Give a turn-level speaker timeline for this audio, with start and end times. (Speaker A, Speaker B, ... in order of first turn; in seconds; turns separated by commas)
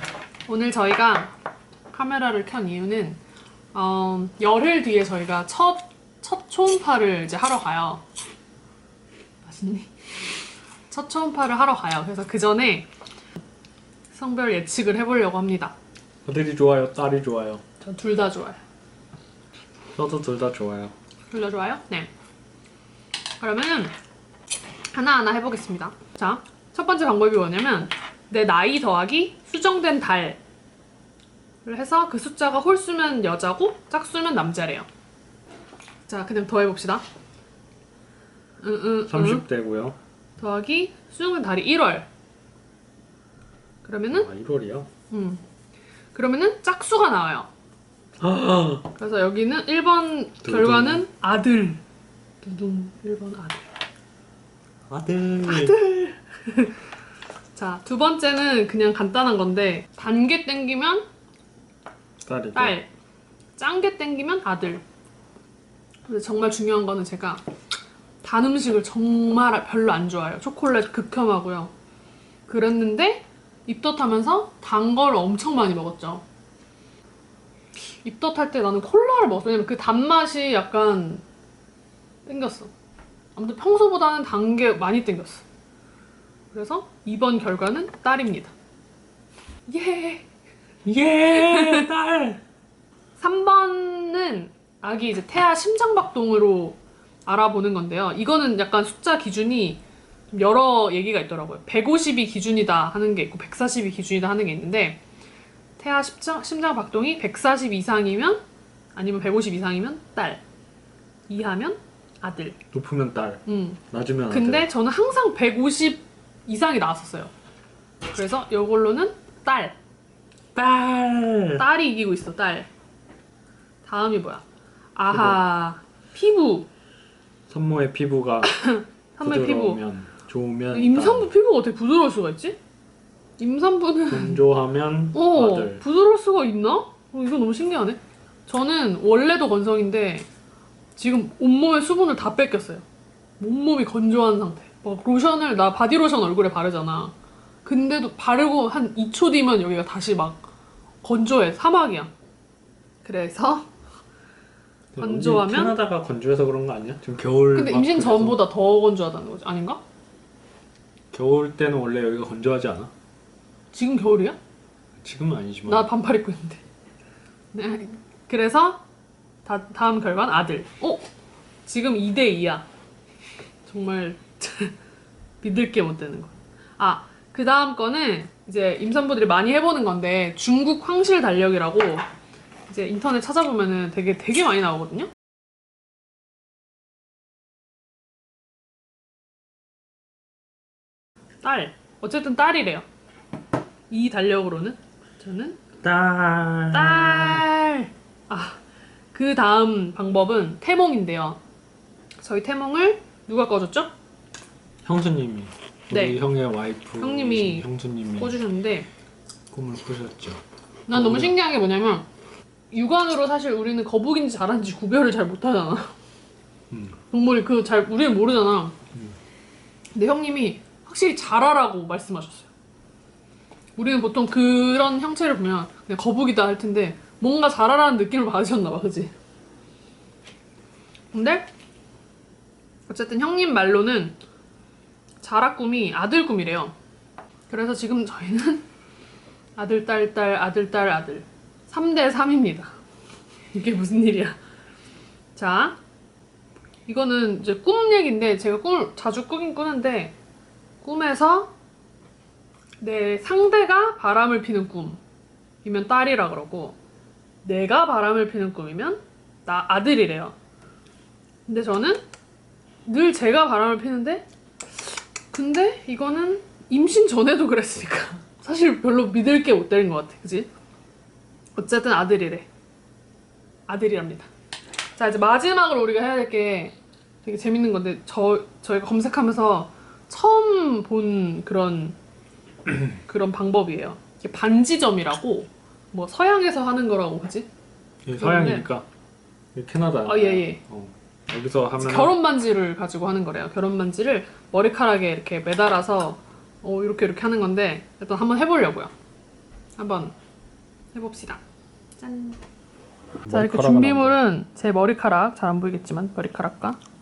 Speaker A: 0.5-1.3, Speaker A: 1.9-3.2, Speaker A: 3.7-8.0, Speaker A: 9.4-9.9, Speaker A: 10.9-12.9, Speaker A: 14.1-15.8, Speaker B: 16.2-17.6, Speaker A: 17.8-18.6, Speaker B: 19.9-20.9, Speaker A: 21.3-22.1, Speaker A: 23.4-23.9, Speaker A: 24.9-30.4, Speaker A: 31.6-34.9, Speaker A: 36.0-37.0, Speaker A: 38.6-39.5, Speaker B: 39.1-40.0, Speaker A: 40.4-42.1, Speaker A: 43.8-44.3, Speaker B: 44.1-44.9, Speaker A: 45.1-45.4, Speaker A: 46.1-47.5, Speaker B: 48.2-48.9, Speaker A: 49.0-51.8, Speaker B: 50.4-51.0, Speaker A: 52.4-53.7, Speaker B: 54.9-55.8, Speaker A: 55.4-56.8, Speaker A: 57.5-61.0, Speaker B: 62.2-62.8, Speaker A: 62.5-62.9, Speaker A: 63.5-64.8, Speaker A: 66.0-67.4, Speaker A: 68.2-71.7, Speaker A: 72.5-76.2, Speaker A: 78.0-81.2, Speaker A: 82.2-82.7, Speaker A: 83.3-85.4, Speaker A: 86.5-88.5, Speaker A: 89.7-90.3, Speaker B: 90.8-92.4, Speaker A: 91.3-91.9, Speaker A: 93.2-105.0, Speaker A: 105.8-108.4, Speaker A: 108.9-110.4, Speaker A: 111.3-112.6, Speaker B: 112.7-114.7, Speaker A: 113.5-117.3, Speaker A: 118.1-119.8, Speaker B: 120.5-121.6, Speaker A: 121.6-122.7, Speaker A: 123.8-126.7, Speaker B: 125.1-125.4, Speaker B: 127.5-128.7, Speaker A: 128.4-129.8, Speaker B: 129.2-131.3, Speaker A: 130.7-132.6, Speaker A: 133.4-134.4, Speaker B: 134.1-135.8, Speaker A: 135.1-140.3, Speaker A: 140.9-142.8, Speaker A: 143.4-150.5, Speaker A: 151.0-152.1, Speaker A: 153.0-153.7, Speaker B: 154.9-158.4, Speaker A: 155.0-155.7, Speaker A: 157.5-159.8, Speaker B: 161.1-162.9, Speaker A: 163.7-164.4, Speaker B: 165.0-165.9, Speaker A: 165.7-166.6, Speaker A: 167.5-168.8, Speaker A: 169.4-171.0, Speaker A: 171.7-172.7, Speaker A: 173.7-174.8, Speaker A: 175.4-182.1, Speaker A: 182.7-185.1, Speaker A: 191.4-192.8, Speaker A: 193.9-195.6, Speaker B: 195.8-197.5, Speaker A: 196.7-198.6, Speaker A: 199.1-201.4, Speaker A: 202.2-203.9, Speaker B: 204.8-208.3, Speaker A: 205.9-206.2, Speaker A: 207.0-208.9, Speaker B: 209.5-211.3, Speaker A: 210.9-212.1, Speaker A: 212.7-215.9, Speaker B: 216.7-217.0, Speaker A: 217.1-218.8, Speaker A: 219.9-222.5, Speaker A: 223.8-229.1, Speaker A: 231.1-231.5, Speaker A: 232.9-234.2, Speaker A: 235.2-236.8, Speaker A: 237.5-238.7, Speaker A: 239.6-242.8, Speaker A: 243.5-244.4, Speaker A: 245.3-245.8, Speaker A: 246.9-250.2, Speaker A: 250.8-251.5, Speaker A: 252.8-255.0, Speaker A: 255.6-256.8, Speaker A: 257.4-260.4, Speaker A: 261.4-262.0, Speaker A: 262.9-270.5, Speaker A: 271.6-272.4, Speaker A: 273.7-274.3, Speaker A: 274.9-282.0, Speaker A: 282.9-287.5, Speaker B: 288.0-288.9, Speaker A: 288.1-288.7, Speaker B: 289.5-292.1, Speaker A: 290.1-290.6, Speaker A: 291.8-298.9, Speaker A: 299.8-300.1, Speaker A: 300.9-301.4, Speaker A: 302.0-302.4, Speaker B: 303.3-304.1, Speaker A: 303.3-306.8